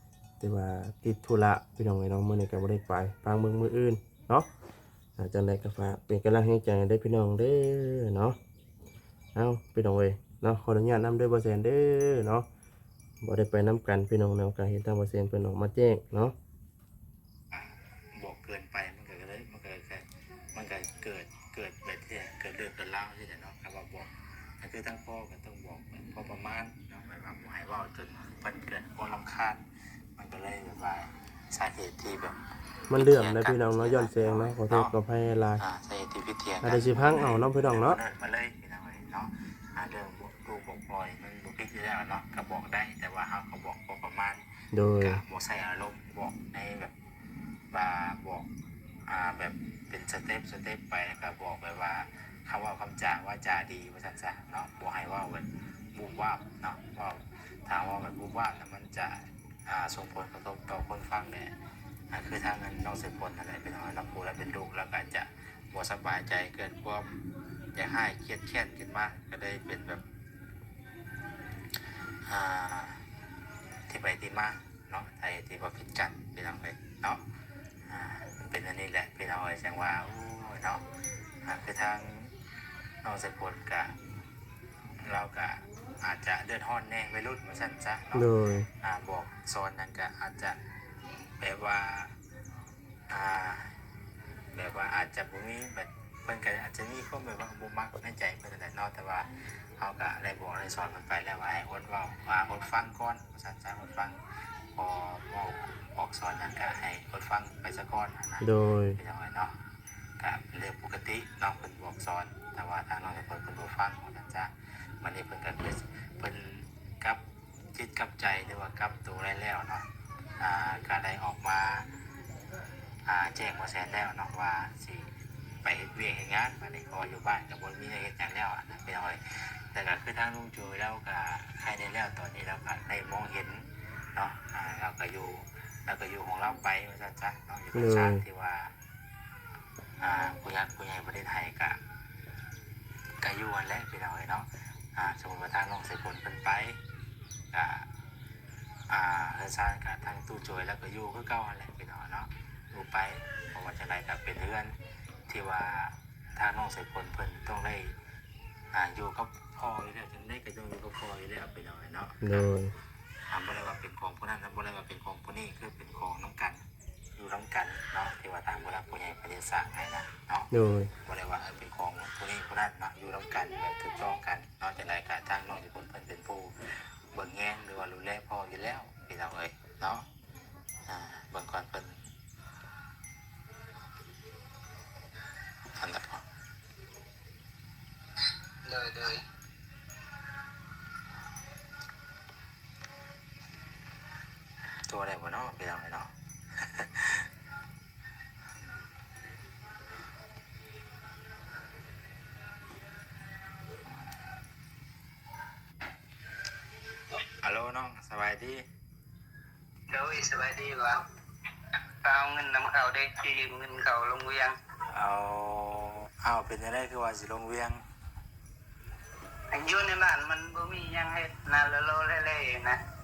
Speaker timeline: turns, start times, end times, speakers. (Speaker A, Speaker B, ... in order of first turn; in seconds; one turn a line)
Speaker A: 0.4-4.5
Speaker A: 5.2-8.4
Speaker A: 9.3-12.5
Speaker A: 13.2-16.3
Speaker B: 17.5-29.6
Speaker B: 30.2-32.4
Speaker A: 32.9-35.6
Speaker B: 32.9-34.9
Speaker B: 35.6-44.4
Speaker A: 36.6-38.0
Speaker A: 44.7-45.2
Speaker B: 45.0-47.0
Speaker B: 47.7-48.5
Speaker B: 49.1-61.5
Speaker B: 62.1-67.1
Speaker B: 67.7-70.0
Speaker B: 72.2-73.0
Speaker B: 73.9-77.2
Speaker B: 77.9-80.8
Speaker B: 81.4-82.3
Speaker B: 83.0-83.9
Speaker B: 85.0-88.3
Speaker A: 88.1-88.7
Speaker B: 88.8-90.6
Speaker B: 91.4-92.2
Speaker B: 93.1-93.8
Speaker B: 94.5-104.2
Speaker B: 104.7-109.5
Speaker A: 108.4-109.0
Speaker B: 110.2-117.2
Speaker B: 117.7-119.9
Speaker B: 120.4-121.9
Speaker B: 123.1-125.1
Speaker B: 125.6-138.7
Speaker A: 137.7-138.2
Speaker B: 140.0-141.8
Speaker B: 143.2-146.8
Speaker B: 147.5-147.9
Speaker B: 148.9-154.8
Speaker B: 155.3-158.0
Speaker B: 158.7-162.2
Speaker A: 162.2-162.7
Speaker B: 163.3-166.6
Speaker B: 167.2-170.5
Speaker A: 170.5-170.9
Speaker B: 171.0-180.1
Speaker B: 180.9-182.0
Speaker B: 185.7-186.2
Speaker C: 188.7-189.2
Speaker B: 194.9-197.3
Speaker B: 207.4-208.7
Speaker C: 209.9-211.1
Speaker C: 212.0-214.6
Speaker B: 214.9-217.8
Speaker C: 219.5-222.8